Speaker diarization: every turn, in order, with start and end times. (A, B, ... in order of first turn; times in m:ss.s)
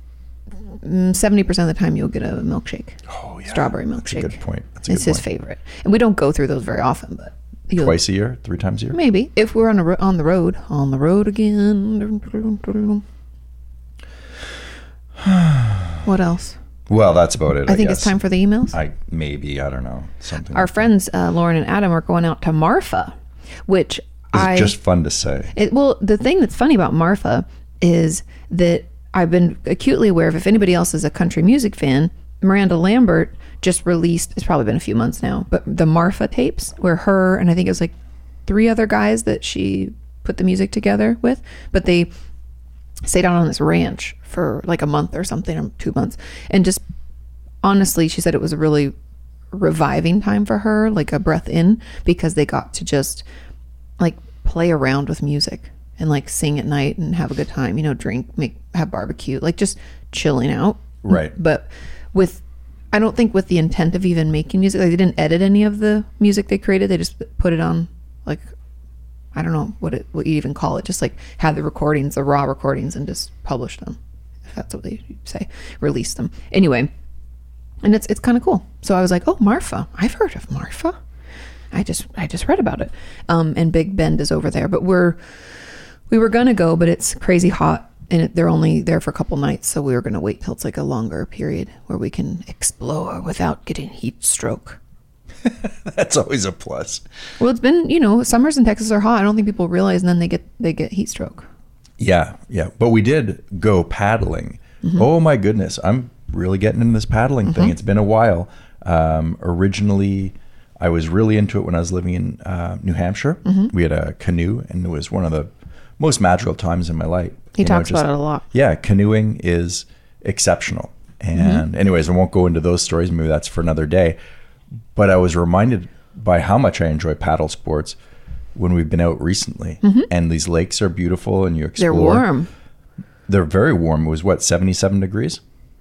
0:00.8-0:08.0 A
0:03.1-0:05.2 B
0:07.8-0:09.0 B
0:08.9-0:13.0 A
0:15.2-0:16.0 B
0:16.0-0:16.6 A
0:16.9-0:18.2 B
0:17.7-0:18.8 A
0:18.7-0:20.9 B
0:20.5-0:23.1 A
0:23.7-0:24.8 A
0:24.3-0:25.5 B
0:25.5-0:37.9 A
0:38.5-0:42.1 A
0:43.0-0:46.8 A
0:47.6-0:48.9 A
0:49.5-0:53.2 A
0:54.0-1:02.4 A
1:01.0-1:01.3 B
1:02.9-1:08.5 A
1:09.3-1:16.9 A
1:17.8-1:21.0 A
1:21.7-1:25.2 A
1:26.1-1:34.8 A
1:35.4-1:37.0 B
1:37.4-1:41.5 A
1:42.0-2:04.2 B
1:47.4-1:47.7 A
1:53.4-1:53.7 A
1:57.6-1:58.4 A
2:01.4-2:01.6 A
2:04.9-2:08.0 B
2:08.6-2:12.3 B
2:09.8-2:10.1 A
2:11.8-2:12.5 A
2:13.3-2:15.4 B